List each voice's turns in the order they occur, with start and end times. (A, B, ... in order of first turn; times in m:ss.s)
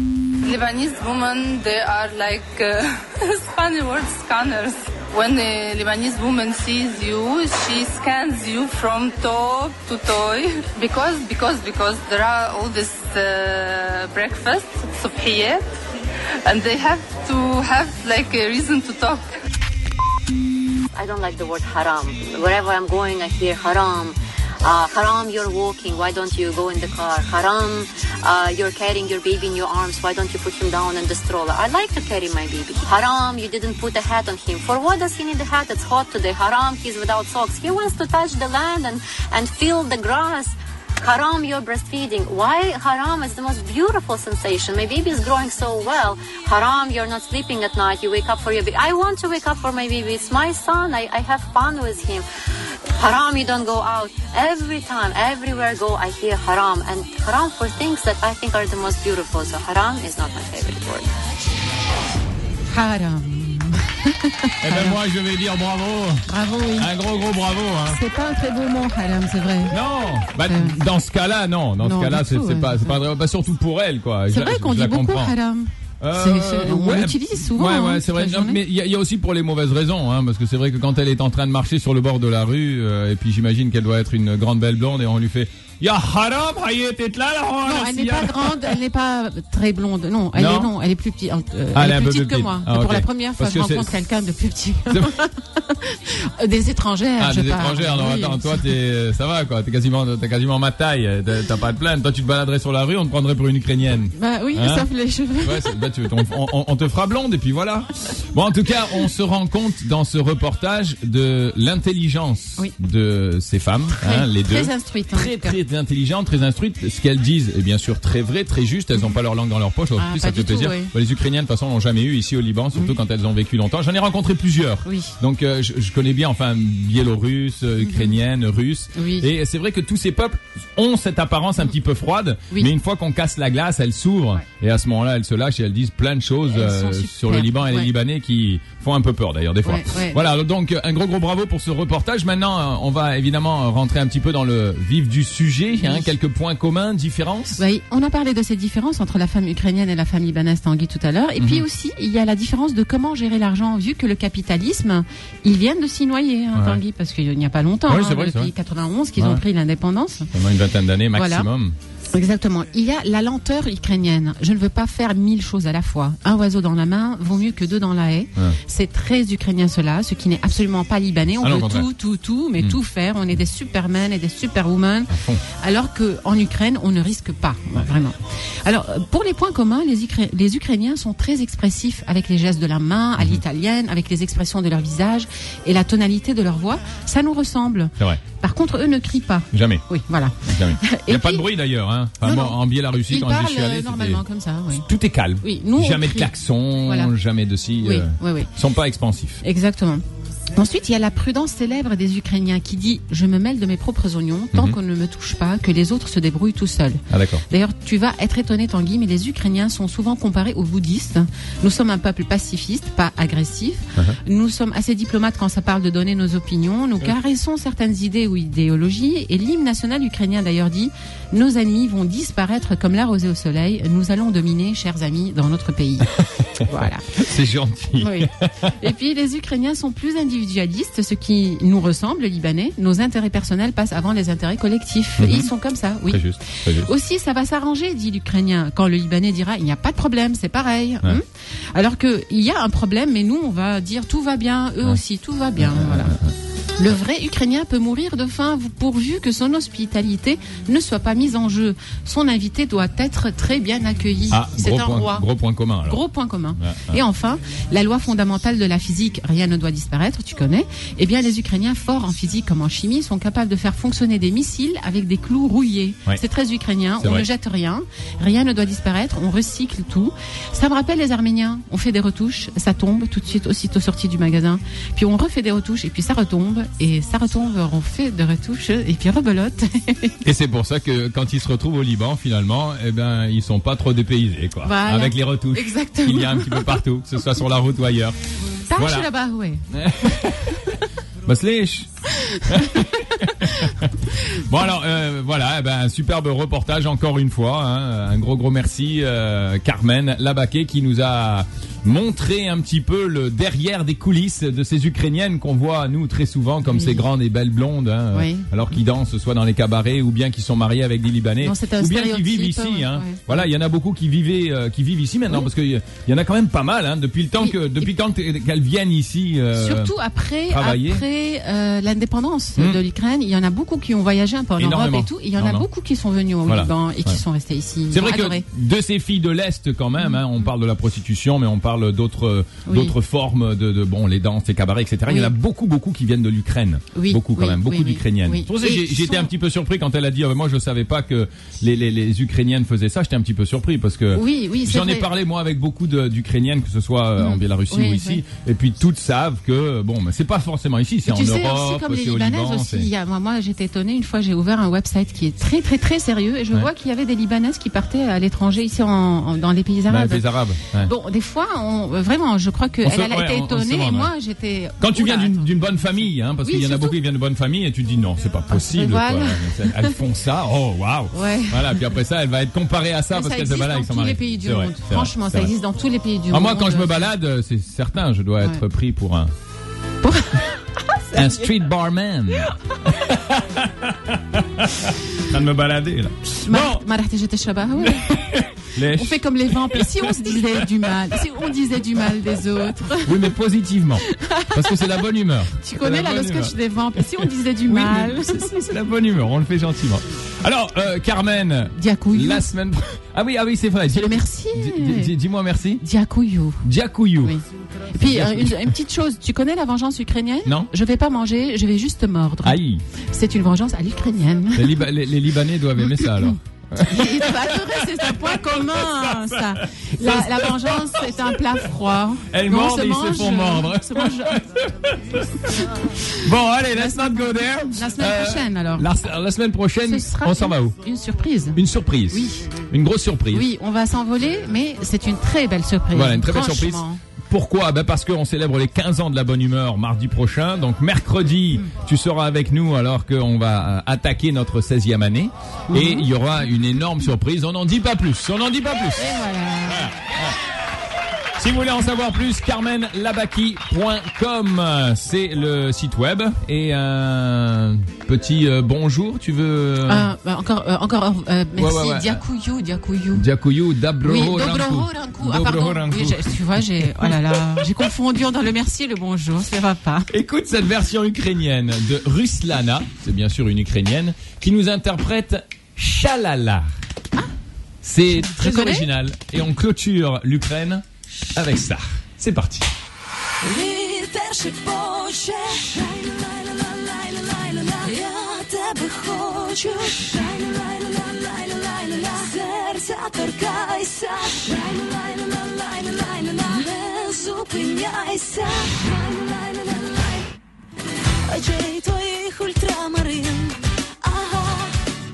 0:00.4-0:15.6 A
0:16.4-0:19.2 A
0:21.0-0:52.2 B
0:53.0-1:01.1 B
1:02.7-1:05.0 C
1:04.6-1:06.2 D
1:06.3-1:06.9 C
1:06.8-1:08.0 D
1:07.9-1:09.8 C
1:09.7-1:15.4 D
1:10.4-1:10.8 C
1:11.8-1:13.0 C
1:14.3-1:18.6 C
1:16.0-1:28.8 D
1:27.6-1:38.7 C
1:30.4-1:30.7 D
1:31.7-1:33.9 D
1:37.2-1:44.9 D
1:44.1-1:45.8 C
1:45.4-2:27.6 D
1:54.0-1:55.6 C
2:00.0-2:00.9 C
2:04.8-2:05.1 C
2:07.8-2:08.1 C
2:09.0-2:09.3 C
2:16.5-2:17.9 C
2:19.6-2:20.2 C
2:25.8-2:26.1 C
2:27.6-2:40.3 C
2:31.4-2:31.6 D
2:36.5-2:36.8 D
2:37.9-2:38.5 D
2:39.2-2:39.4 D
2:40.3-2:41.8 D
2:41.1-2:41.5 C
2:42.1-3:11.5 C
2:51.4-2:51.9 D
2:55.1-2:55.4 D
3:09.5-3:09.8 D
3:10.4-3:19.4 D
3:12.2-3:14.9 C
3:15.4-3:16.3 C
3:16.8-3:17.1 C
3:17.8-3:18.5 C
3:19.4-3:20.0 C
3:20.5-3:47.2 C
3:27.1-3:27.4 D
3:46.2-3:48.7 D
3:48.0-3:56.2 C
3:55.2-3:55.5 D
3:56.1-3:56.9 D
3:56.8-4:01.2 C
4:01.7-4:06.2 C
4:05.6-4:06.3 D
4:06.8-4:15.3 C
4:14.3-4:16.0 D
4:15.8-4:40.2 C
4:16.6-4:17.0 D
4:27.0-4:27.3 D
4:40.2-4:48.2 D
4:44.6-4:46.8 C
4:48.7-4:50.2 C
4:48.8-4:49.1 D
4:49.7-4:51.9 D
4:52.2-4:53.8 C
4:52.4-5:19.9 D
5:06.7-5:07.0 C
5:08.1-5:08.5 C
5:11.4-5:13.4 C
5:17.4-5:17.9 C
5:19.5-5:28.4 C
5:20.5-5:21.0 D
5:24.6-5:25.7 D
5:26.4-5:27.2 D
5:27.9-5:52.9 D
5:32.6-5:32.9 C
5:35.1-5:35.3 C
5:36.9-5:39.3 C
5:44.1-5:45.1 C
5:47.2-5:48.2 C
5:51.1-6:00.3 C
5:59.9-6:00.9 D
6:00.8-6:05.5 C
6:02.8-6:04.1 D
6:04.8-6:15.5 D
6:06.4-6:07.0 C
6:08.5-6:10.0 C
6:11.1-6:11.9 C
6:13.1-6:17.1 C
6:16.3-6:19.3 D
6:20.0-6:21.6 C
6:21.1-6:26.8 D
6:26.4-6:33.3 C
6:27.8-6:31.5 D
6:32.2-6:45.8 D
6:34.1-6:34.9 C
6:35.6-6:38.6 C
6:41.8-6:42.5 C
6:43.9-6:45.1 C
6:45.8-6:46.6 C
6:46.6-6:47.4 D
6:47.9-6:52.6 C
6:48.0-6:48.7 D
6:52.4-6:52.8 D
6:53.1-6:54.9 C
6:54.6-7:01.3 D
6:55.8-7:04.4 C
7:02.3-7:10.7 D
7:06.7-7:08.9 C
7:09.8-7:11.6 C
7:11.6-7:13.4 D
7:12.1-7:12.5 C
7:13.3-7:17.0 C
7:15.9-7:30.4 D
7:25.7-7:26.1 C
7:29.0-7:29.9 C
7:31.4-7:40.1 D
7:39.9-7:43.3 C
7:41.6-7:42.2 D
7:43.1-7:47.9 D
7:44.0-7:50.1 C
7:50.1-7:56.7 D
7:57.8-8:02.7 D
7:58.1-7:58.9 C
8:03.4-8:20.3 E
8:21.3-8:24.8 E